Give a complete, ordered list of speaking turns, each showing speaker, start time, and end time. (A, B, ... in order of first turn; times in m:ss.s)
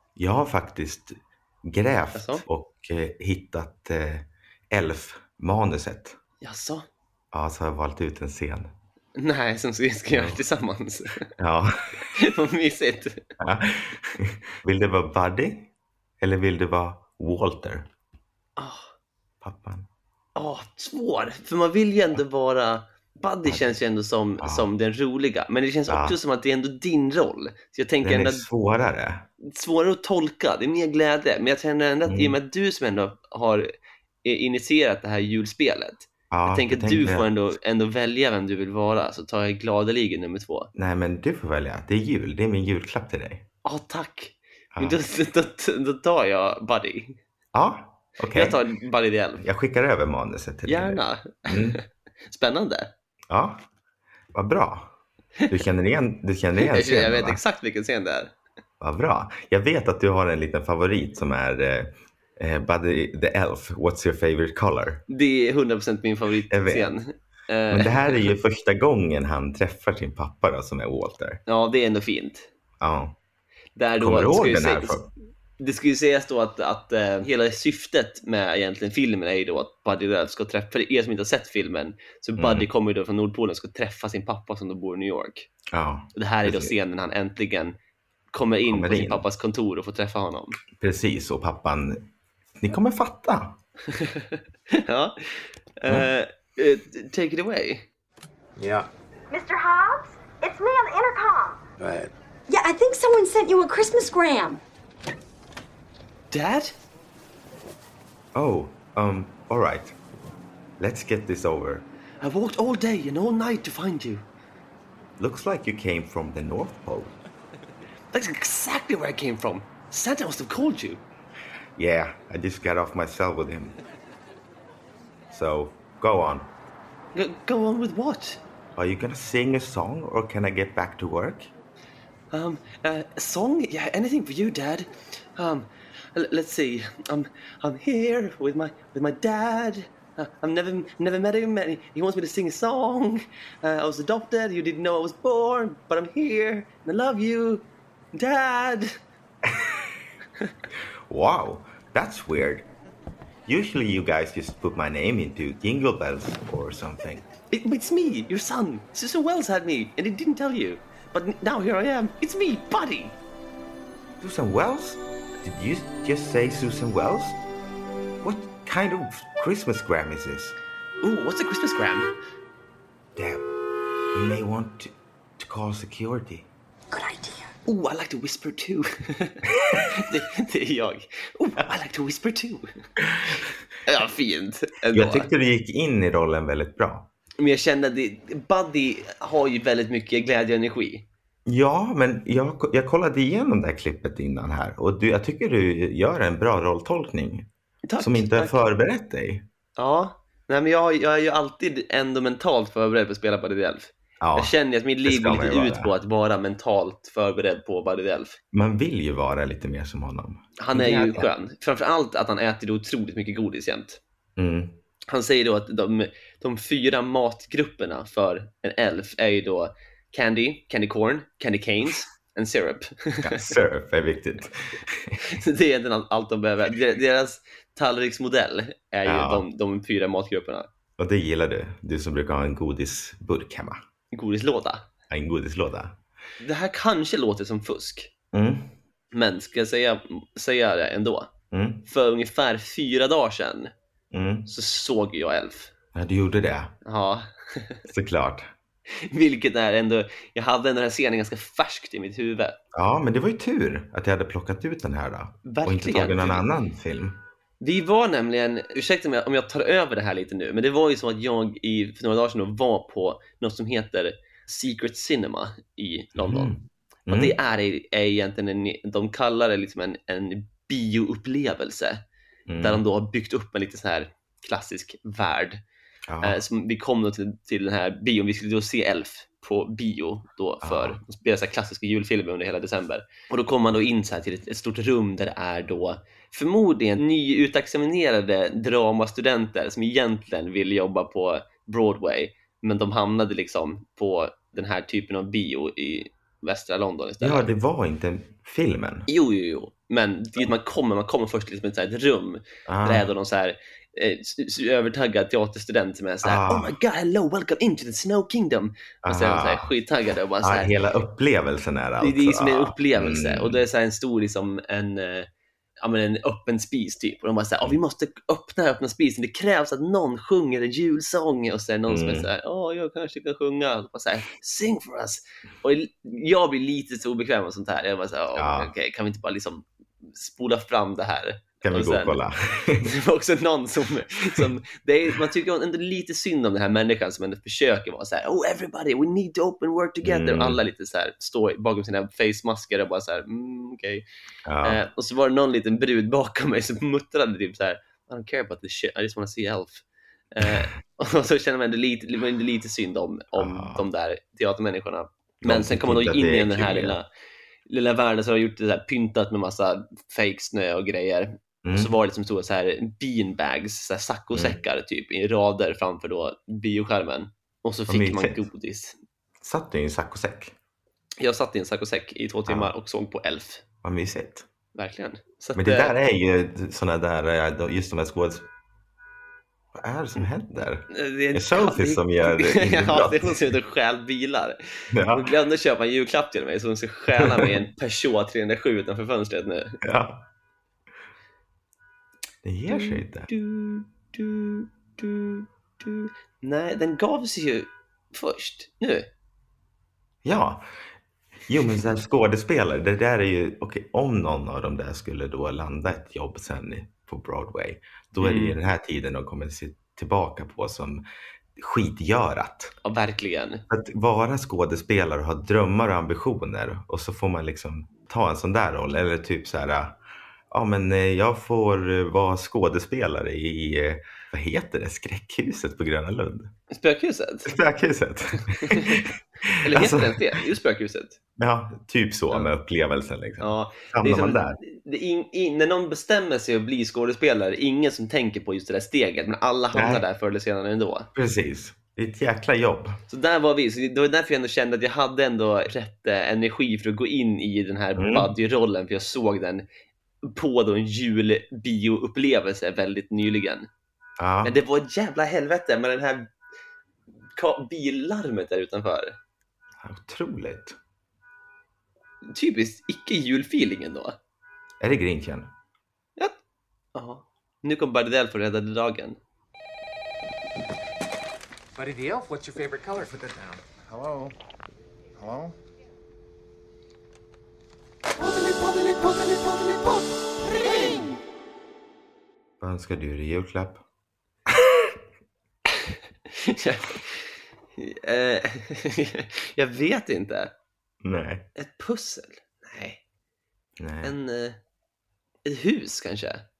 0:00.2-0:06.2 A
0:02.1-0:02.4 B
0:06.4-0:06.8 B
0:07.3-0:08.7 A
0:09.2-0:11.3 B
0:10.1-0:10.4 A
0:11.4-0:12.1 A
0:12.0-0:13.2 B
0:13.4-0:17.9 A
0:18.6-0:18.9 B
0:19.4-0:19.9 A
0:20.4-0:28.4 B
0:24.4-0:24.7 A
0:25.9-0:26.2 A
0:28.0-0:29.3 A
0:29.4-0:33.7 B
0:32.1-0:32.4 A
0:34.2-0:40.7 B
0:36.3-0:37.3 A
0:40.7-0:43.4 A
0:43.6-0:47.2 B
0:47.5-0:48.6 A
0:48.3-0:49.4 B
0:49.4-0:51.8 A
0:50.7-0:52.9 B
0:53.3-0:53.6 A
0:54.3-0:54.9 A
0:55.5-0:57.4 A
0:56.6-0:58.3 B
0:58.8-1:05.0 A
1:05.1-1:08.3 B
1:06.5-1:06.9 A
1:07.7-1:11.4 A
1:11.5-1:12.5 B
1:12.8-1:13.2 A
1:13.8-1:15.0 B
1:14.0-1:15.1 A
1:15.6-1:25.5 B
1:22.4-1:22.7 A
1:25.7-1:26.7 A
1:26.1-1:27.8 B
1:28.3-1:30.6 B
1:28.7-1:29.2 A
1:30.8-1:32.1 A
1:32.6-1:33.6 A
1:33.9-1:37.8 B
1:38.6-1:38.9 C
1:39.3-1:41.6 D
1:41.8-1:42.1 C
1:42.5-1:44.6 D
1:46.3-1:46.7 B
1:48.3-1:49.9 A
1:50.8-1:51.8 A
1:52.2-1:54.2 B
1:55.2-1:57.2 A
1:58.1-2:01.0 B
2:01.8-2:03.7 A
2:05.3-2:06.5 A
2:07.1-2:08.4 B
2:08.8-2:11.5 A
2:12.3-2:29.0 B
2:29.4-2:30.0 A
2:31.1-2:32.7 A
2:33.4-2:37.2 A
2:37.5-2:43.2 B
2:44.2-2:47.4 A
2:48.2-2:50.6 A
2:51.0-2:52.1 B
2:53.2-2:53.4 A
2:54.1-2:56.5 A
2:56.9-2:57.5 D
2:57.6-3:02.7 B
3:03.1-3:03.5 A
3:03.8-3:05.3 B
3:04.9-3:07.1 A
3:07.4-3:11.0 B
3:11.4-3:19.5 A
3:17.8-3:18.6 B
3:19.8-3:28.4 B
3:24.2-3:25.9 A
3:28.5-3:31.3 A
3:30.6-3:34.0 B
3:34.4-3:34.8 A
3:35.1-3:43.5 B
3:43.2-3:45.2 A
3:45.2-3:50.7 B
3:49.0-3:49.4 A
3:51.0-3:53.8 A
3:54.1-3:54.9 B
3:55.1-3:56.0 A
3:56.4-3:58.1 B
3:58.3-3:58.7 A
3:59.1-4:01.3 B
4:01.5-4:01.8 A
4:01.9-4:03.7 B
4:04.1-4:04.5 A
4:04.5-4:05.7 B
4:05.9-4:06.7 A
4:06.8-4:07.8 B
4:07.9-4:08.5 A
4:08.9-4:12.6 B
4:12.7-4:17.2 A
4:15.4-4:16.4 B
4:17.6-4:26.5 B
4:26.1-4:27.4 A
4:27.1-4:32.0 B
4:32.5-4:32.8 A
4:32.6-4:35.6 B
4:36.1-4:36.4 A
4:36.2-4:57.4 B
4:40.6-4:41.0 A
4:57.2-4:59.1 A
4:59.1-5:10.7 B
5:02.7-5:03.1 A
5:06.2-5:06.7 A
5:09.0-5:09.7 A
5:10.4-5:13.6 A
5:12.0-5:15.3 B
5:15.8-5:32.2 B
5:21.9-5:22.3 A
5:28.3-5:28.7 A
5:31.6-5:32.9 A
5:32.8-5:44.0 B
5:40.0-5:40.6 A
5:44.5-5:44.8 A
5:44.6-5:57.0 B
5:53.4-5:53.8 A
5:55.4-5:57.0 A
5:57.7-6:09.0 B
6:01.6-6:01.9 A
6:04.3-6:04.6 A
6:07.9-6:08.4 A
6:09.4-6:10.5 A
6:11.2-6:13.6 B
6:13.8-6:14.4 A
6:14.7-6:16.0 B
6:15.6-6:18.5 A
6:19.7-6:23.5 A
6:20.9-6:29.8 B
6:24.9-6:25.3 A
6:27.2-6:27.5 A
6:29.8-6:30.2 A
6:32.4-6:33.3 A
6:32.7-6:39.1 B
6:40.2-6:40.6 A
6:41.5-6:51.0 A
6:48.2-6:48.6 B
6:51.6-6:52.7 A
6:52.8-6:53.6 B
6:53.7-7:06.5 A
7:06.7-7:07.5 B
7:07.4-7:10.4 A
7:08.4-7:09.0 B
7:09.6-7:11.2 B
7:11.4-7:14.6 A
7:13.4-7:21.1 B
7:19.7-7:20.0 A
7:21.1-7:23.0 A
7:23.1-7:29.6 B
7:28.0-7:28.3 A
7:30.2-7:33.7 B
7:34.2-7:34.5 A
7:34.4-7:36.3 B
7:37.4-7:39.2 B
7:39.8-7:40.8 A
7:42.3-7:44.2 B
7:44.8-7:45.5 A
7:46.9-7:49.2 B
7:51.8-7:54.3 C
7:55.2-7:55.6 C
7:58.3-7:59.9 C
8:02.6-8:03.8 A
8:05.8-8:07.2 B
8:07.8-8:10.5 B
8:11.0-8:11.5 A
8:11.6-8:13.0 B
8:13.8-8:14.1 A
8:14.0-8:14.6 B
8:15.4-8:16.4 B